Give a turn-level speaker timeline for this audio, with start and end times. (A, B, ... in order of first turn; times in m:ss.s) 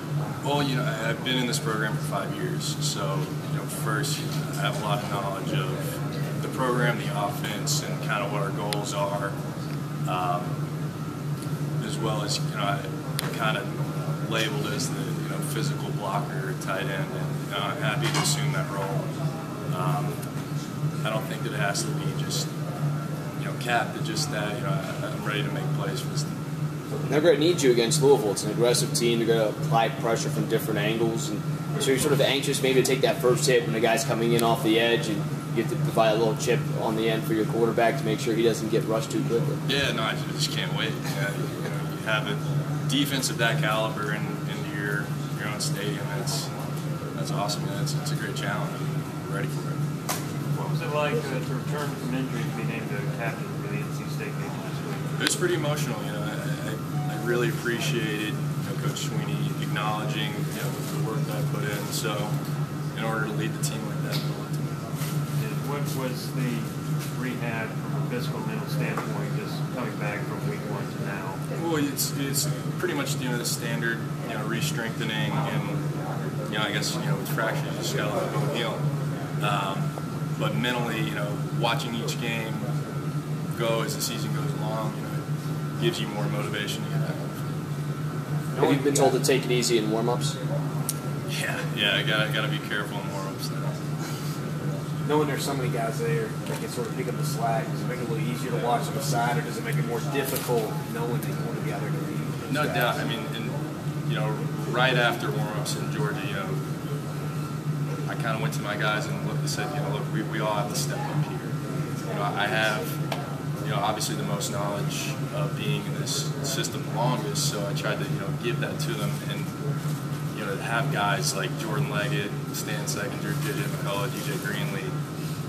0:00.4-0:09.3 A
0:10.0-0:10.5 A
0:11.8-0:19.1 A
0:19.7-0:20.2 A
0:21.0-0:22.5 A
0:23.4-0:26.3 A
0:27.1-0:39.6 B
0:39.6-0:46.5 A
0:47.2-0:49.8 A
0:50.5-0:55.2 C
0:55.2-1:02.3 A
1:02.9-1:04.7 A
1:05.4-1:11.4 C
1:11.5-1:15.8 A
1:16.5-1:18.8 A
1:19.4-1:22.7 A
1:23.5-1:25.2 A
1:25.8-1:27.6 A
1:28.5-1:29.2 D
1:28.6-1:30.4 B
1:31.3-1:33.8 A
1:35.0-1:43.0 D
1:42.5-1:43.6 A
1:44.1-1:46.6 A
1:48.1-1:51.5 A
1:52.0-1:52.9 A
1:53.6-1:59.5 A
2:00.3-2:04.9 A